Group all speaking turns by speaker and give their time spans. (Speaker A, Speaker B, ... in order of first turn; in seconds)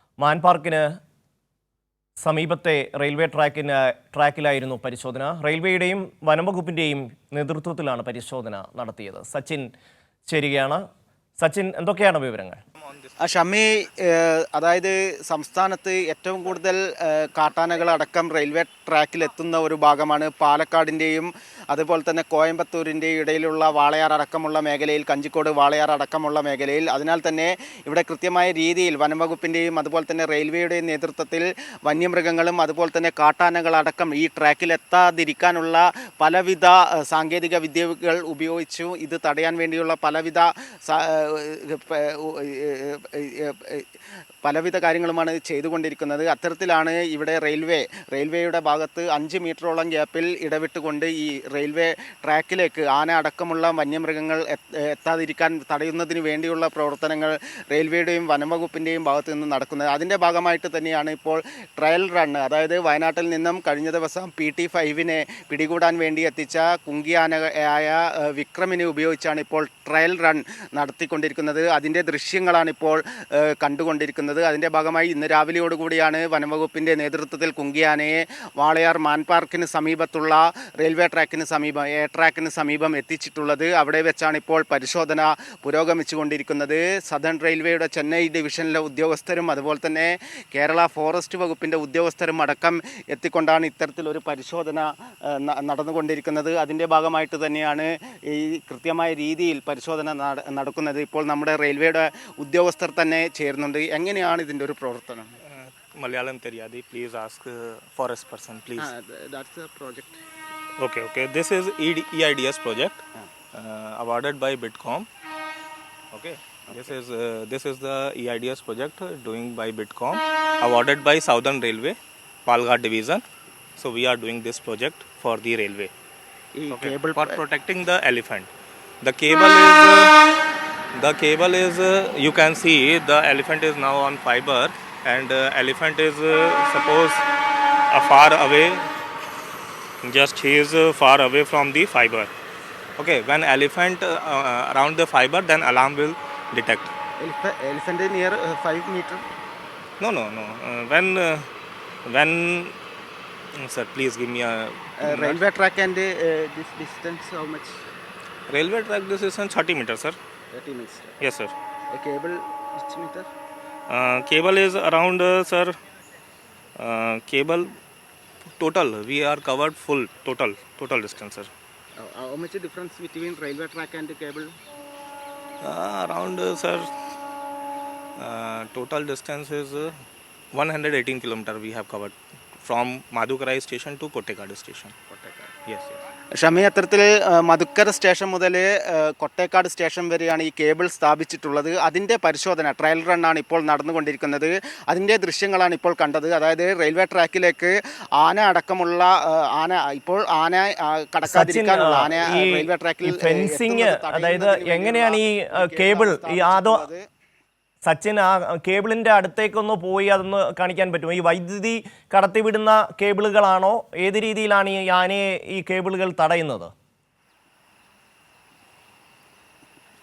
Speaker A: 0.2-0.8, 2.2-9.7, 10.3-10.8, 11.4-12.6, 201.2-206.8, 207.8-216.7
Speaker B: 12.8-13.2, 105.5-108.9, 110.8-113.0, 113.5-115.1, 116.1-123.2, 123.8-125.9, 126.7-128.5, 129.0-130.1, 130.9-137.2, 137.9-138.9, 140.0-142.3, 143.0-146.9, 150.0-151.5, 152.1-152.8, 153.5-155.4, 158.5-160.2, 161.2-161.5, 163.9-165.7, 166.8-167.7, 168.6-171.5, 175.6-176.9, 178.2-180.0, 180.5-184.9, 185.6-186.0
Speaker C: 13.2-43.9, 44.4-105.4, 108.8-110.2, 126.5-127.4, 147.2-149.2, 155.0-157.8, 160.5-161.2, 161.9-163.3, 172.0-174.6, 186.3-207.0